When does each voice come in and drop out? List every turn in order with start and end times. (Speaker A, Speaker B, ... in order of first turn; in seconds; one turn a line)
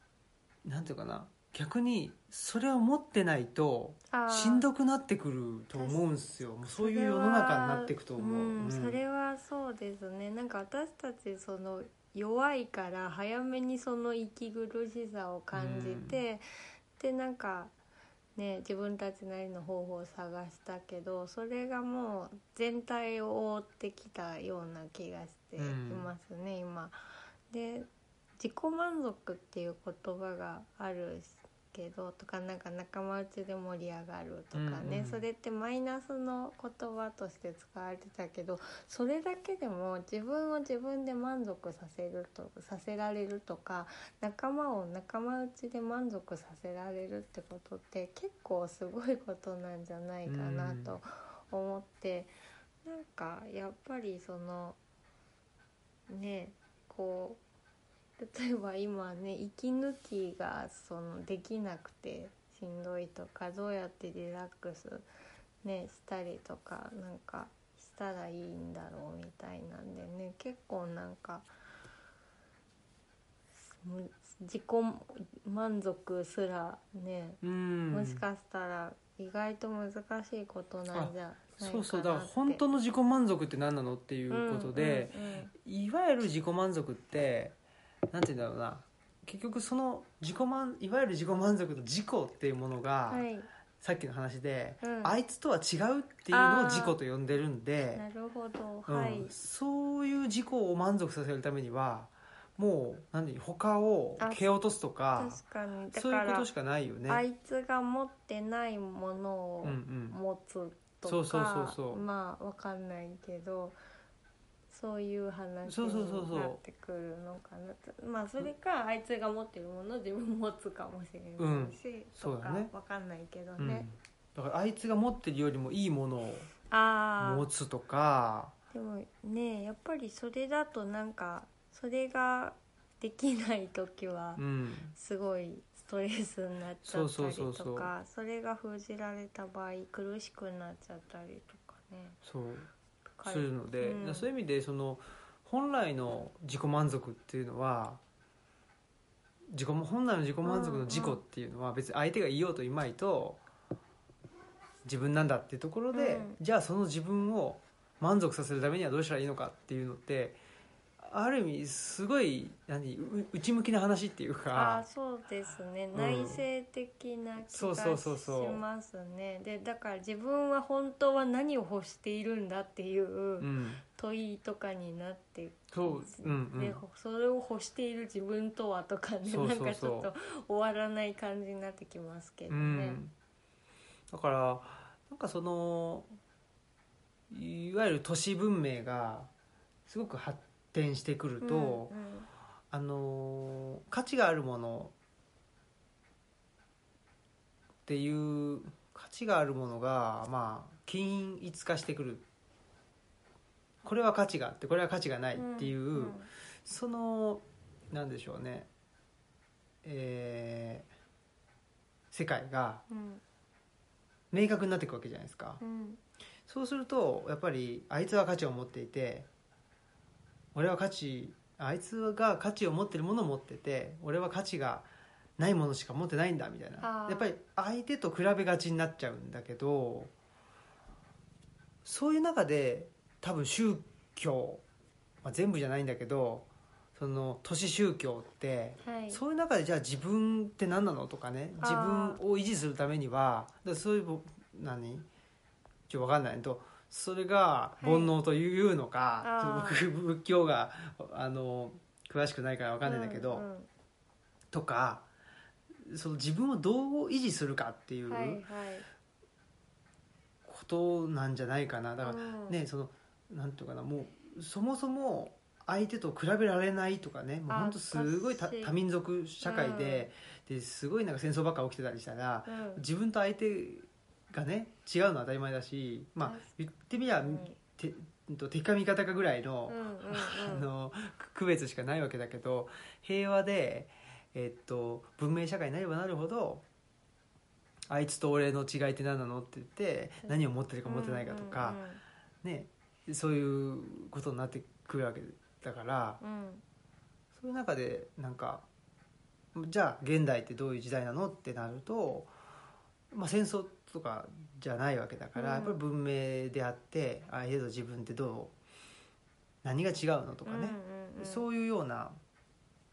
Speaker A: 0.6-9.0
Speaker B: 4.1-4.7
Speaker B: 5.7-6.0
Speaker B: 6.6-16.4
Speaker A: 15.5-16.2
Speaker B: 17.0-17.7
Speaker B: 18.4-27.0
Speaker A: 25.6-26.1
Speaker B: 27.5-54.8
Speaker A: 34.5-35.2
Speaker A: 50.2-51.0
Speaker B: 56.1-57.4
Speaker B: 58.2-65.0
Speaker B: 65.6-71.5
Speaker B: 73.7-82.6
Speaker A: 77.4-78.2
Speaker A: 80.9-87.5
Speaker B: 84.3-85.5
Speaker A: 88.1-93.3
Speaker B: 93.1-93.5
Speaker A: 93.8-98.0
Speaker B: 94.8-95.2
Speaker B: 96.3-97.0
Speaker B: 97.9-99.3
Speaker A: 98.9-105.4
Speaker B: 104.2-104.5
Speaker B: 105.2-106.5
Speaker A: 105.9-107.2
Speaker B: 107.1-113.8
Speaker A: 109.6-110.2
Speaker A: 111.0-112.0
Speaker B: 114.7-123.9
Speaker A: 115.7-116.6
Speaker A: 121.4-122.7
Speaker A: 123.6-126.5
Speaker B: 126.7-127.5
Speaker A: 127.2-128.6
Speaker B: 128.7-134.4
Speaker A: 134.4-134.9
Speaker B: 134.9-142.2
Speaker A: 136.8-137.9
Speaker A: 142.2-142.7
Speaker B: 143.2-144.3
Speaker A: 143.2-148.0
Speaker A: 149.5-153.4
Speaker B: 150.4-151.2
Speaker A: 154.8-160.4
Speaker B: 155.9-156.4
Speaker A: 161.0-164.8
Speaker B: 164.5-183.0
Speaker A: 165.9-166.4
Speaker A: 167.4-168.6
Speaker A: 173.4-173.8
Speaker A: 175.7-176.8
Speaker A: 179.2-180.1
Speaker A: 182.5-183.1
Speaker A: 184.1-186.1
Speaker A: 187.3-189.3
Speaker A: 189.9-191.9
Speaker B: 191.4-192.3
Speaker A: 192.7-194.9
Speaker A: 197.9-202.2
Speaker A: 203.8-208.7
Speaker B: 205.3-206.3
Speaker A: 209.8-210.9
Speaker A: 212.1-212.8
Speaker B: 212.9-213.2
Speaker A: 214.3-215.6
Speaker B: 215.6-216.0
Speaker A: 216.5-219.3
Speaker A: 220.5-230.1
Speaker B: 226.8-227.3
Speaker A: 231.8-234.6
Speaker A: 235.2-245.1
Speaker B: 238.8-239.2
Speaker B: 241.6-242.2
Speaker A: 245.9-253.4
Speaker B: 247.8-248.1
Speaker B: 249.2-249.8
Speaker B: 252.8-253.7
Speaker A: 254.5-255.1
Speaker A: 255.9-258.4
Speaker B: 258.1-258.9
Speaker A: 260.4-286.6
Speaker B: 262.0-262.6
Speaker B: 267.5-268.7
Speaker B: 269.4-270.1
Speaker B: 272.5-272.8
Speaker B: 277.2-277.6
Speaker B: 279.7-280.7
Speaker A: 287.9-291.8
Speaker B: 290.2-292.0
Speaker A: 292.4-296.2
Speaker B: 296.2-296.6
Speaker A: 297.3-298.6
Speaker A: 299.5-302.3
Speaker A: 303.1-308.5
Speaker B: 305.4-305.8
Speaker A: 309.6-312.2
Speaker B: 310.4-311.4